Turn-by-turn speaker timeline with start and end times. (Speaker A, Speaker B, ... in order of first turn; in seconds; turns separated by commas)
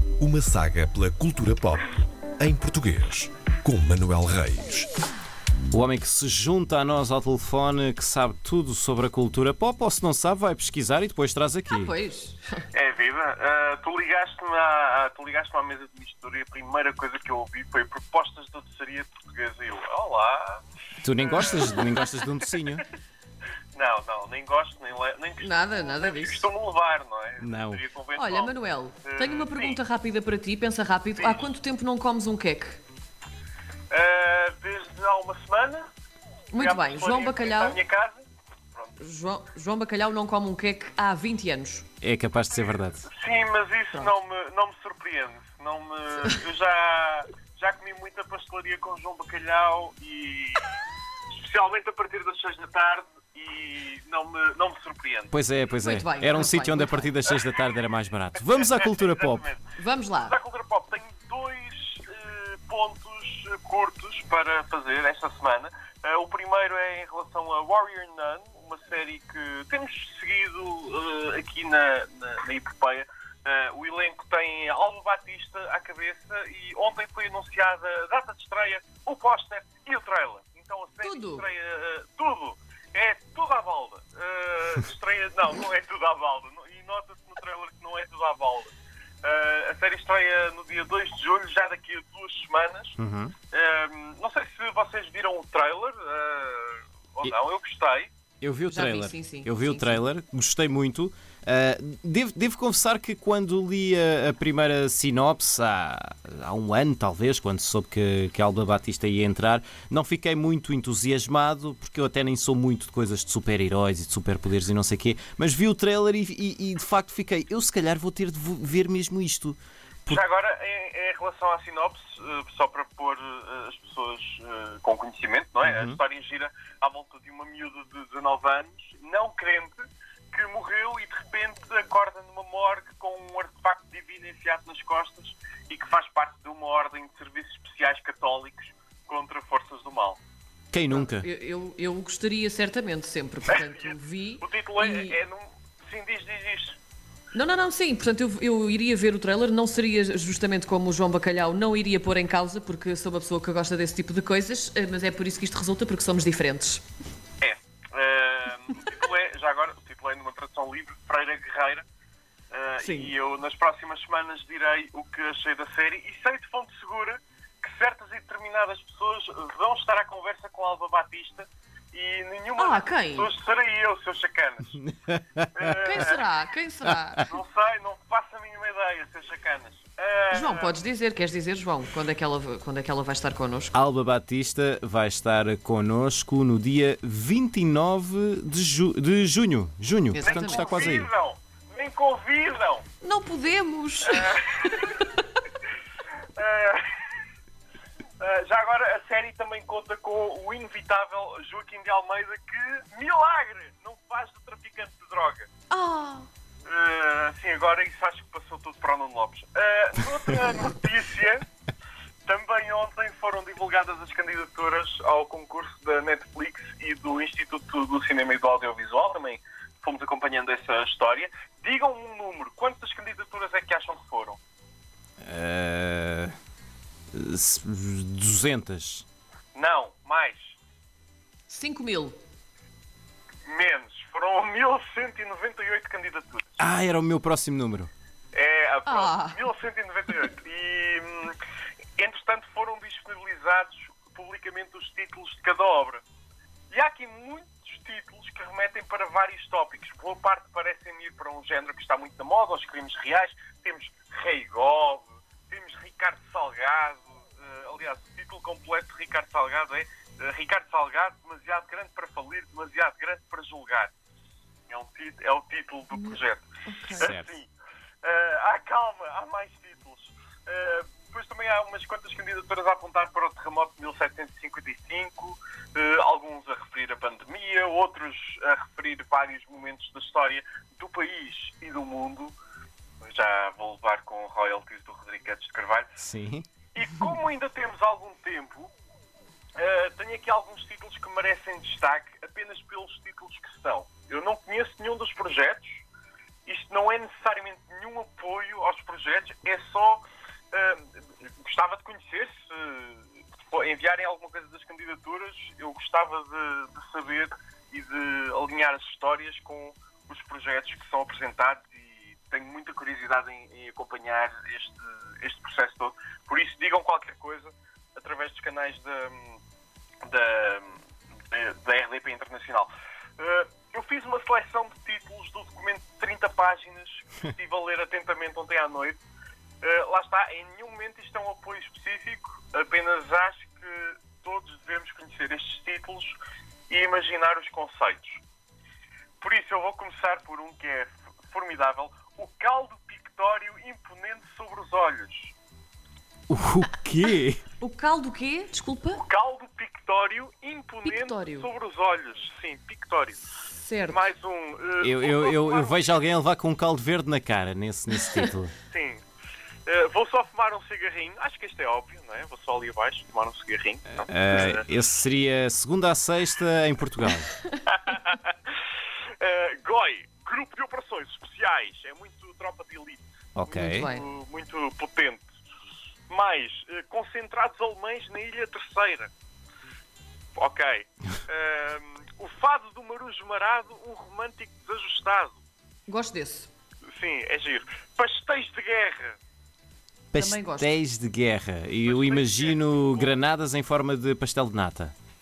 Speaker A: 0.2-1.8, Speaker A: 2.4-4.9, Speaker B: 5.7-11.9, Speaker C: 11.7-12.6, Speaker D: 12.7-20.6, Speaker B: 21.0-22.8, Speaker D: 21.2-21.8, Speaker D: 23.7-29.8, Speaker C: 25.4-26.4, Speaker B: 27.4-27.8, Speaker C: 28.1-32.8, Speaker D: 31.1-31.5, Speaker D: 33.9-35.9, Speaker C: 36.5-37.8, Speaker D: 36.5-38.9, Speaker C: 39.0-41.8, Speaker B: 42.0-43.1, Speaker D: 42.5-50.7, Speaker D: 51.4-55.3, Speaker B: 55.3-59.4, Speaker C: 55.7-57.1, Speaker D: 57.2-57.8, Speaker D: 58.4-93.0, Speaker C: 59.8-60.4, Speaker C: 81.0-81.5, Speaker B: 93.0-93.3, Speaker D: 93.5-98.1, Speaker B: 98.4-120.2, Speaker C: 98.7-100.0, Speaker D: 120.1-140.2, Speaker B: 125.6-125.9, Speaker B: 140.7-141.3, Speaker C: 140.9-145.2, Speaker D: 143.4-146.8, Speaker C: 147.3-156.8, Speaker D: 157.4-161.8, Speaker D: 162.5-174.8, Speaker C: 162.8-163.1, Speaker C: 172.6-173.3, Speaker B: 175.1-175.7, Speaker D: 175.5-176.2, Speaker C: 175.7-177.3, Speaker D: 177.2-180.8, Speaker C: 180.3-183.7, Speaker B: 183.7-191.1, Speaker C: 190.1-190.9, Speaker D: 190.2-192.8, Speaker C: 193.0-194.3, Speaker D: 194.0-195.1, Speaker D: 196.3-196.9, Speaker D: 198.2-205.5, Speaker C: 205.7-206.3, Speaker D: 206.6-211.4, Speaker D: 212.2-224.4, Speaker B: 225.2-226.3, Speaker B: 227.1-229.0, Speaker D: 229.5-230.6, Speaker C: 231.5-232.2, Speaker D: 233.4-236.5, Speaker B: 236.6-237.9, Speaker D: 238.3-241.3, Speaker C: 238.8-239.4, Speaker D: 242.0-246.0, Speaker D: 246.7-263.9, Speaker D: 264.7-267.5, Speaker C: 265.9-267.1, Speaker B: 267.0-267.3, Speaker D: 268.0-282.3, Speaker D: 283.0-286.0, Speaker B: 286.0-286.4, Speaker D: 286.7-288.7, Speaker D: 289.6-295.8, Speaker D: 296.4-319.4, Speaker D: 320.0-320.8, Speaker D: 321.3-329.0, Speaker D: 329.6-336.2, Speaker D: 336.7-338.2, Speaker D: 339.2-345.3, Speaker B: 346.3-347.4, Speaker C: 347.6-349.0, Speaker D: 348.9-353.2, Speaker C: 350.8-351.5, Speaker C: 353.5-354.1, Speaker D: 353.9-356.0, Speaker B: 354.8-358.5, Speaker D: 358.7-359.0, Speaker D: 359.6-364.6, Speaker B: 364.1-367.3, Speaker D: 367.7-368.4, Speaker D: 369.2-375.3, Speaker B: 373.4-373.9, Speaker C: 373.5-374.0, Speaker D: 376.1-379.1, Speaker D: 380.4-385.4, Speaker C: 385.9-386.5, Speaker D: 386.9-389.2, Speaker B: 390.1-394.9, Speaker C: 390.1-390.7, Speaker D: 391.8-393.2